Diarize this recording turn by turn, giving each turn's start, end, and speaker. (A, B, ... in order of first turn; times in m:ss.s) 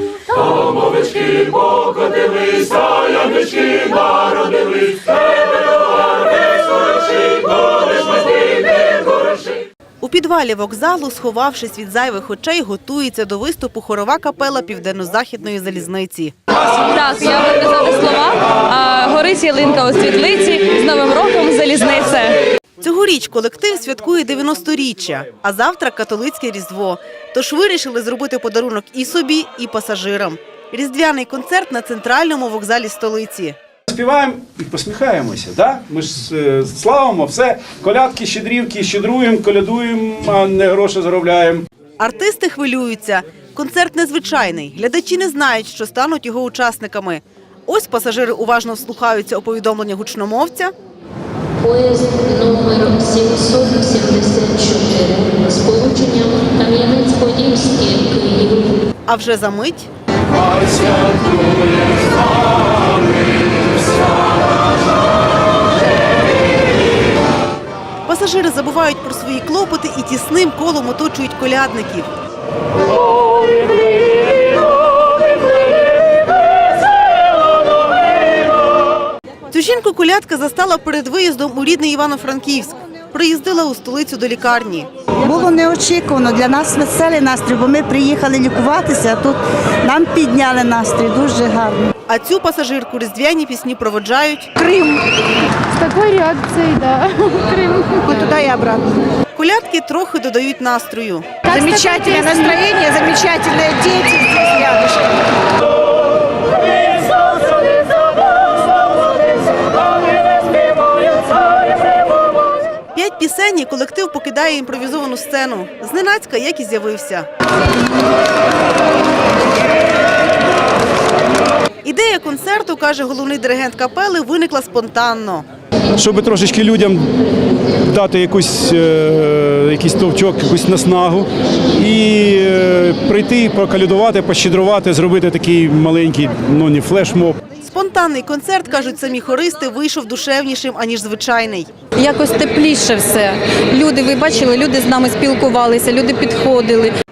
0:03.3-0:03.9 A
0:10.0-0:16.3 B
0:16.8-0:22.4 A
0:22.8-0:33.5 B
0:33.9-0:41.6 C
0:42.0-0:50.7 B
0:51.6-0:58.8 D
0:59.1-0:59.9 B
1:08.0-1:12.1 B
1:19.5-1:24.9 B
1:25.2-1:31.9 E
1:32.1-1:34.5 B
1:34.6-1:35.0 E
1:35.7-1:38.1 F
1:37.6-1:38.9 E
1:39.3-1:41.3 B
1:41.4-1:42.6 F
1:41.5-1:45.1 E
1:52.9-1:57.3 B
2:01.8-2:05.4 B
2:06.0-2:17.4 C
2:17.6-2:21.7 B
2:22.0-2:26.9 A